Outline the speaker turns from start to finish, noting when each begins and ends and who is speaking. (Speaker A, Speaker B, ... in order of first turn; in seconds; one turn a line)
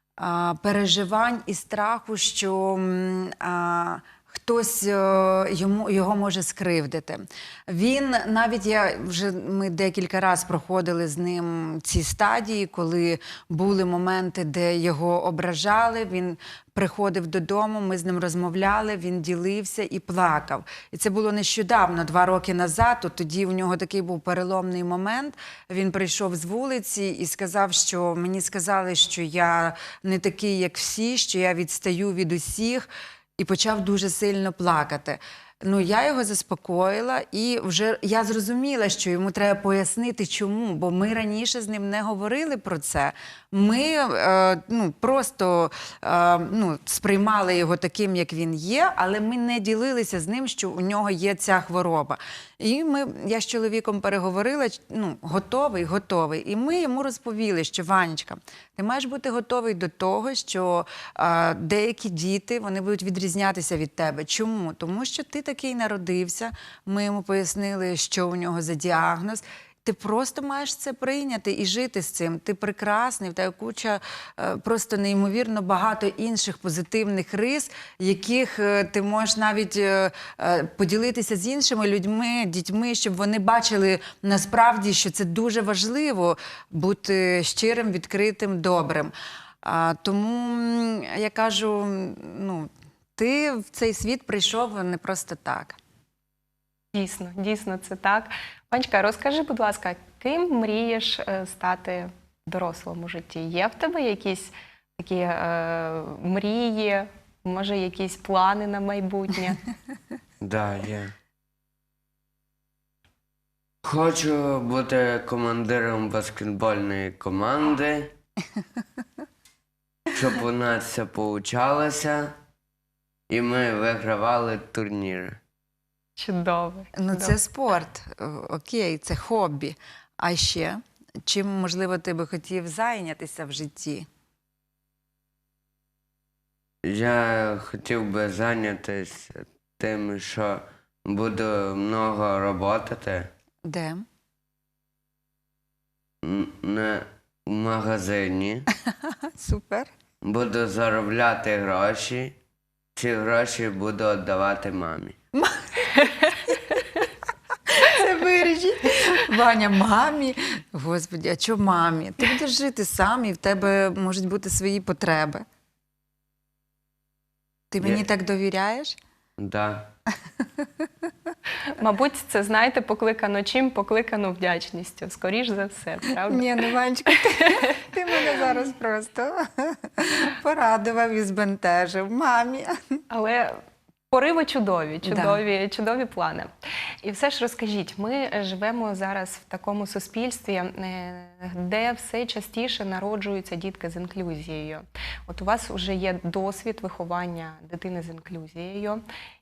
Speaker A: 0.2-95.8
Speaker B: 96.9-109.6
Speaker C: 110.4-111.1
Speaker C: 113.8-118.1
Speaker C: 120.1-122.3
Speaker C: 123.3-125.4
Speaker B: 126.2-127.4
Speaker A: 126.9-134.1
Speaker C: 136.8-143.3
Speaker A: 143.6-144.1
Speaker C: 146.2-148.7
Speaker A: 148.8-149.9
Speaker C: 150.2-152.3
Speaker C: 152.9-155.1
Speaker A: 155.3-156.6
Speaker A: 157.7-165.4
Speaker A: 167.7-169.0
Speaker C: 167.8-168.1
Speaker C: 169.4-169.9
Speaker A: 170.6-170.8
Speaker B: 171.7-176.4
Speaker A: 176.2-183.0
Speaker B: 177.1-177.9
Speaker B: 183.1-186.5
Speaker A: 185.0-185.4
Speaker B: 187.0-199.0